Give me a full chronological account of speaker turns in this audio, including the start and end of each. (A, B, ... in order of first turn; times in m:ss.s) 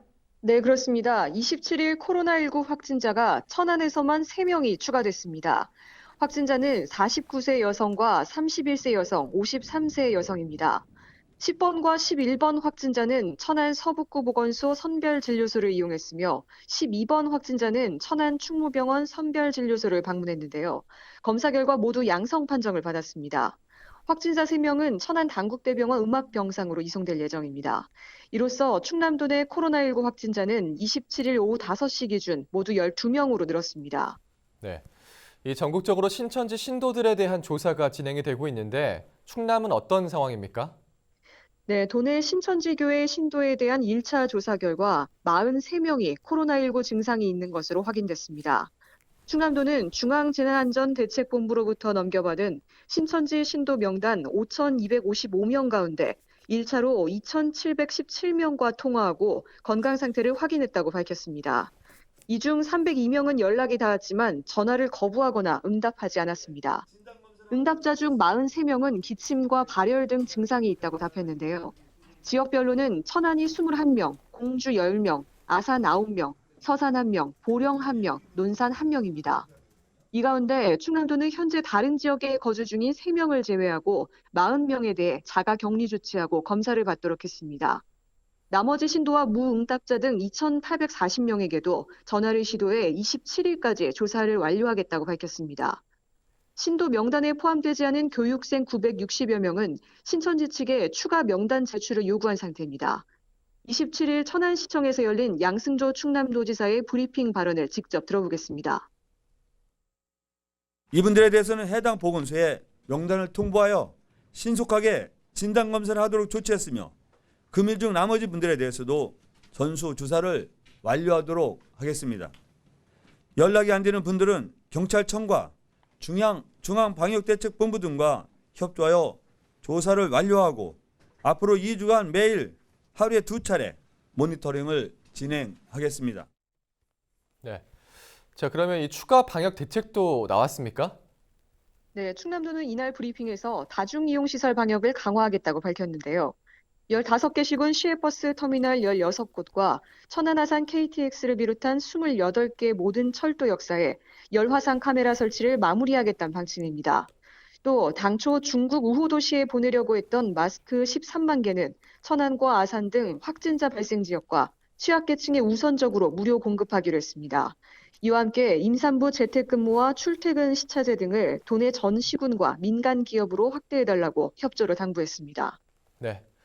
0:00.4-0:10.8 A
0:11.4-0:34.2 A
0:35.4-0:40.8 B
0:41.7-0:48.7 A
0:49.3-1:01.7 A
1:02.3-1:06.9 A
1:07.5-1:19.5 A
1:20.1-1:27.8 A
1:28.5-1:35.8 A
1:36.6-1:43.0 A
1:43.6-1:48.9 A
1:50.9-1:56.9 C
1:57.5-2:02.3 C
2:03.4-2:16.3 C
2:18.4-2:21.0 B
2:21.9-2:26.3 A
2:26.9-2:37.1 A
2:37.6-2:55.6 A
2:56.0-2:56.2 B